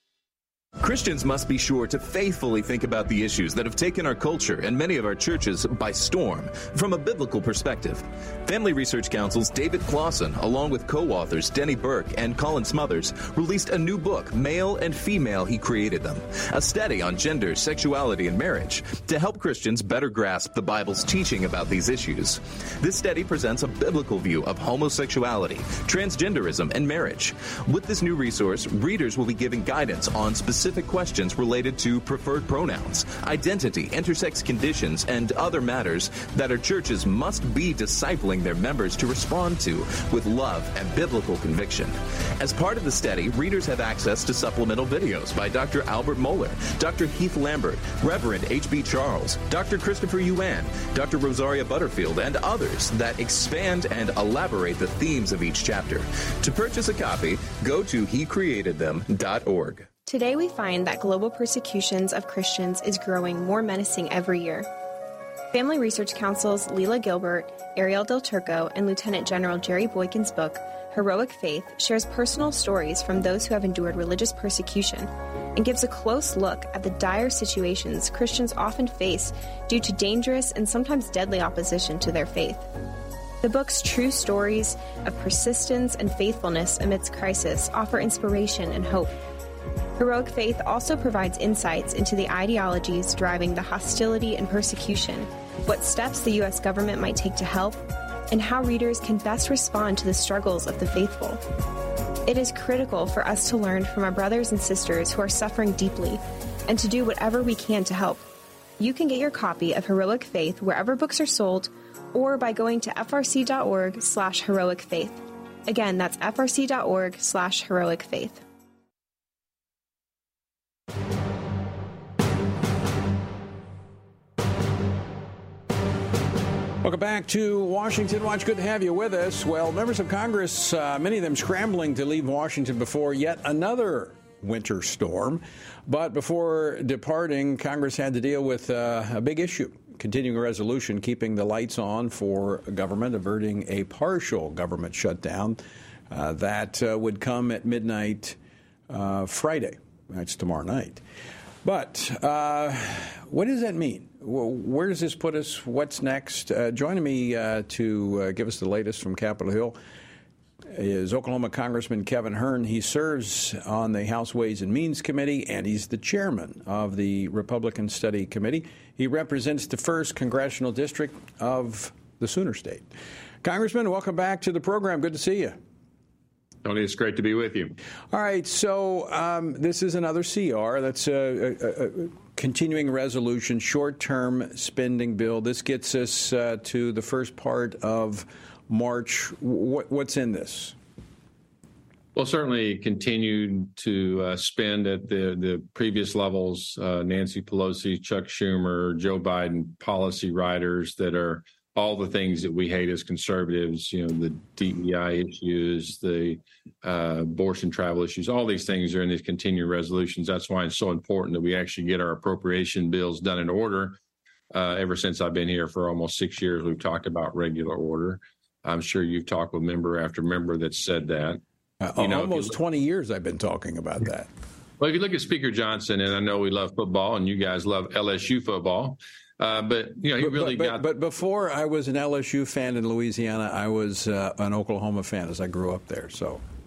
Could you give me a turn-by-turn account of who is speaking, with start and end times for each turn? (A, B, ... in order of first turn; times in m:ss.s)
0:00.8-0:59.9 A
1:00.1-1:04.7 B
1:05.5-1:22.7 B
1:23.4-1:29.1 B
1:30.0-1:41.4 B
1:42.3-1:48.2 B
1:48.8-1:58.4 B
2:06.8-2:28.4 C
2:28.9-2:31.0 C
2:31.6-2:39.8 C
2:40.7-2:52.9 C
2:53.4-2:55.6 C
2:56.6-2:57.7 D
2:58.1-3:10.8 C
3:12.2-3:34.0 D
3:34.5-3:41.4 D
3:41.8-3:44.3 C
3:42.0-3:42.6 D
3:44.8-3:50.8 D
3:50.2-3:56.4 C